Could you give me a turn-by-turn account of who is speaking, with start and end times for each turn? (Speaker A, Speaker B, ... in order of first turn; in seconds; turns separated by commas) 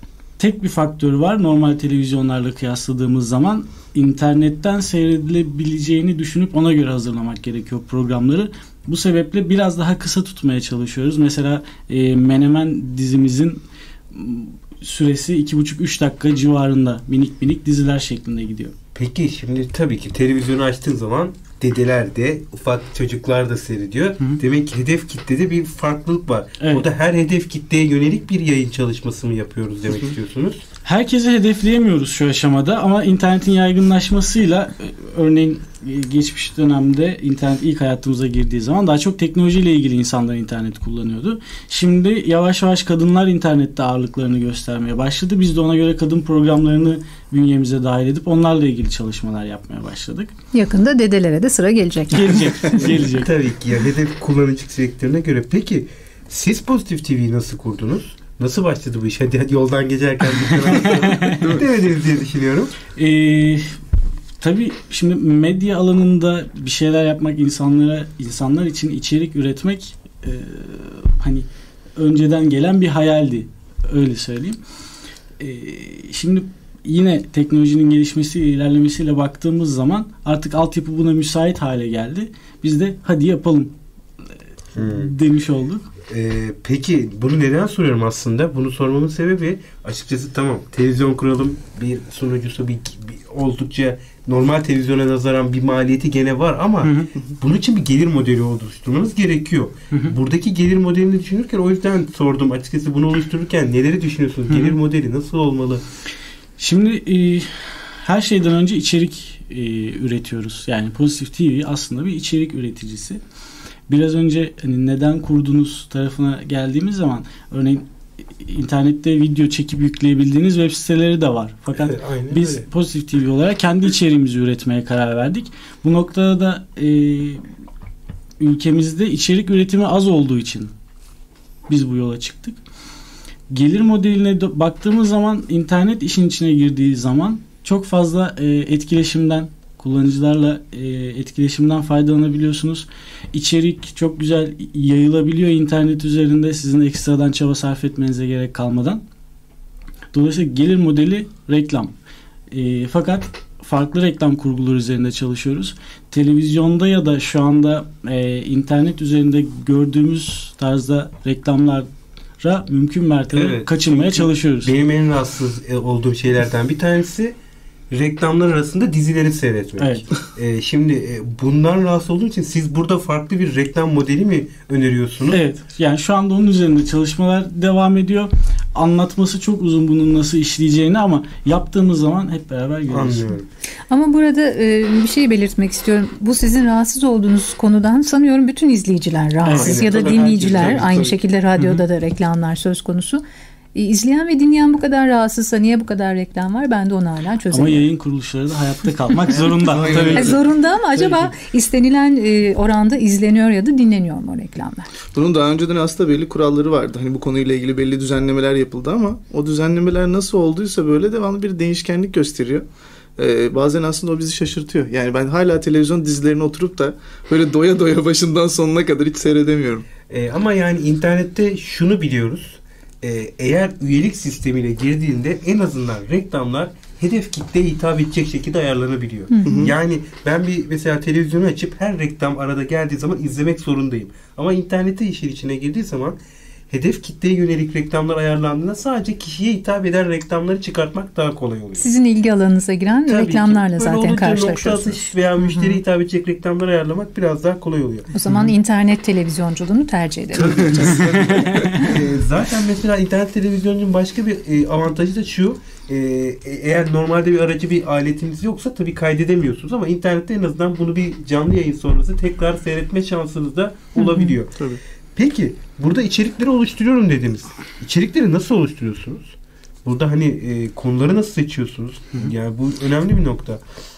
Speaker A: 0.4-18.7, Speaker B: 18.9-30.6, Speaker A: 26.6-26.9, Speaker A: 30.8-50.3, Speaker C: 50.5-52.8, Speaker A: 52.1-53.3, Speaker B: 53.0-62.7, Speaker A: 60.4-61.5, Speaker A: 62.9-63.6, Speaker A: 64.4-74.6, Speaker A: 75.4-83.7, Speaker A: 84.8-85.8, Speaker B: 84.8-85.1, Speaker B: 86.1-105.8, Speaker A: 96.8-97.1, Speaker A: 104.5-104.8, Speaker A: 106.6-113.2, Speaker A: 113.9-127.4, Speaker B: 121.7-122.7, Speaker A: 128.4-130.7, Speaker A: 131.7-132.6, Speaker A: 133.5-149.0, Speaker A: 150.1-151.9, Speaker A: 152.5-161.9, Speaker A: 162.4-164.7, Speaker B: 163.3-167.3, Speaker B: 167.9-175.4, Speaker A: 169.8-170.1, Speaker A: 175.3-183.4, Speaker B: 182.9-183.4, Speaker C: 183.9-193.2, Speaker A: 189.4-189.9, Speaker B: 189.6-191.1, Speaker D: 189.8-191.1, Speaker C: 193.7-197.8, Speaker A: 197.5-200.4, Speaker D: 199.6-200.4, Speaker C: 200.1-204.9, Speaker A: 200.9-201.3, Speaker D: 205.1-212.6, Speaker D: 213.2-219.8, Speaker B: 220.1-236.2, Speaker C: 229.3-229.7, Speaker D: 229.4-229.7, Speaker B: 236.7-241.8, Speaker C: 241.8-245.8, Speaker B: 243.1-248.4, Speaker C: 248.1-251.2, Speaker B: 250.3-264.6, Speaker A: 251.3-252.0, Speaker C: 264.0-264.4, Speaker D: 264.6-264.8, Speaker B: 265.1-273.6